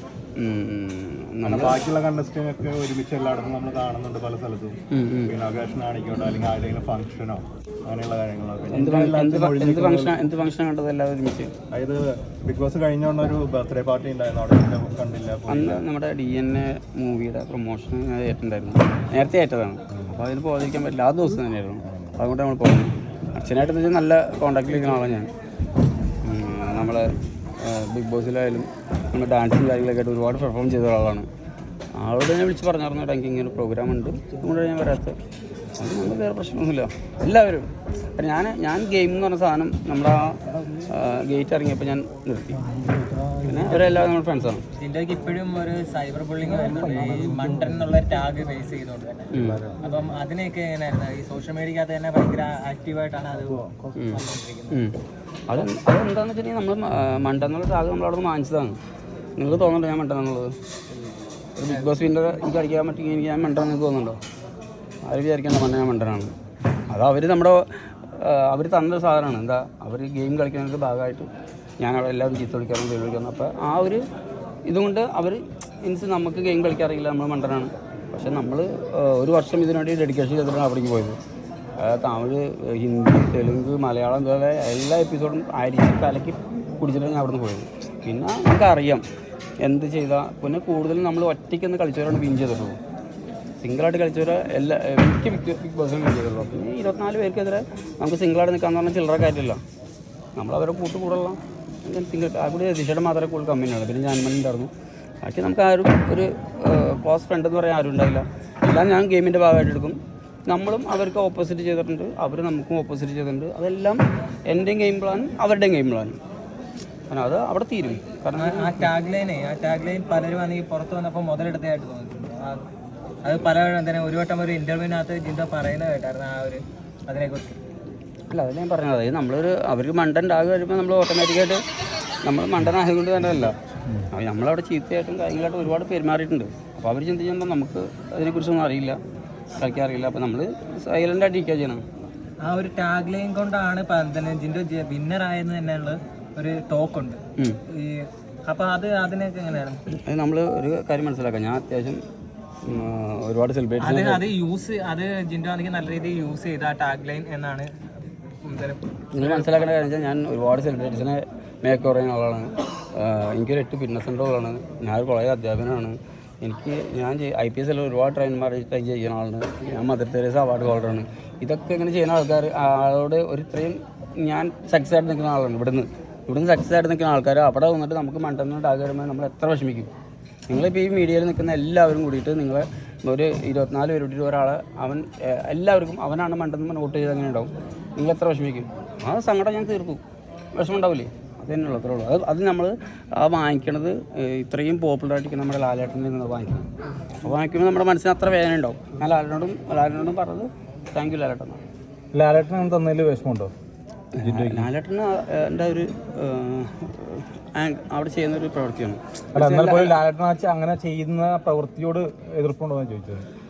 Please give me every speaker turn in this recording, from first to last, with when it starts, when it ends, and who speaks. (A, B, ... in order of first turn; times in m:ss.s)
0:00.4-0:01.8 A
0:01.4-0:10.3 B
0:04.9-0:05.3 A
0:08.7-0:11.5 A
0:11.7-0:15.9 B
0:15.5-0:25.3 A
0:19.9-0:20.2 B
0:21.9-0:22.2 B
0:26.2-0:27.0 A
0:27.6-0:31.3 A
0:32.0-0:35.2 A
0:35.8-0:42.7 A
0:42.8-0:43.6 C
0:43.4-0:44.6 A
0:44.7-0:53.7 D
0:46.8-0:47.4 C
0:49.3-0:49.7 A
0:53.9-0:55.0 A
0:55.5-0:58.8 A
0:59.4-1:00.5 A
1:01.6-1:04.2 A
1:01.6-1:02.1 D
1:05.0-1:06.3 A
1:06.9-1:11.3 A
1:11.8-1:14.0 A
1:14.6-1:21.2 A
1:21.8-1:29.0 A
1:29.6-1:32.8 A
1:33.6-1:39.6 A
1:40.4-1:44.7 A
1:45.2-1:56.2 A
1:57.1-1:58.9 A
1:58.3-2:02.6 D
2:03.2-2:07.6 D
2:08.3-2:11.6 A
2:12.2-2:13.6 A
2:14.1-2:19.0 A
2:19.6-2:21.8 A
2:22.4-2:29.8 D
2:29.9-2:32.0 A
2:32.6-2:34.3 A
2:33.8-2:37.7 D
2:38.4-2:39.8 D
2:39.1-2:59.9 A
3:00.5-3:10.0 A
3:10.5-3:16.7 A
3:17.2-3:21.6 A
3:22.1-3:23.5 C
3:24.2-3:30.0 A
3:24.2-3:24.7 C
3:29.3-3:33.2 C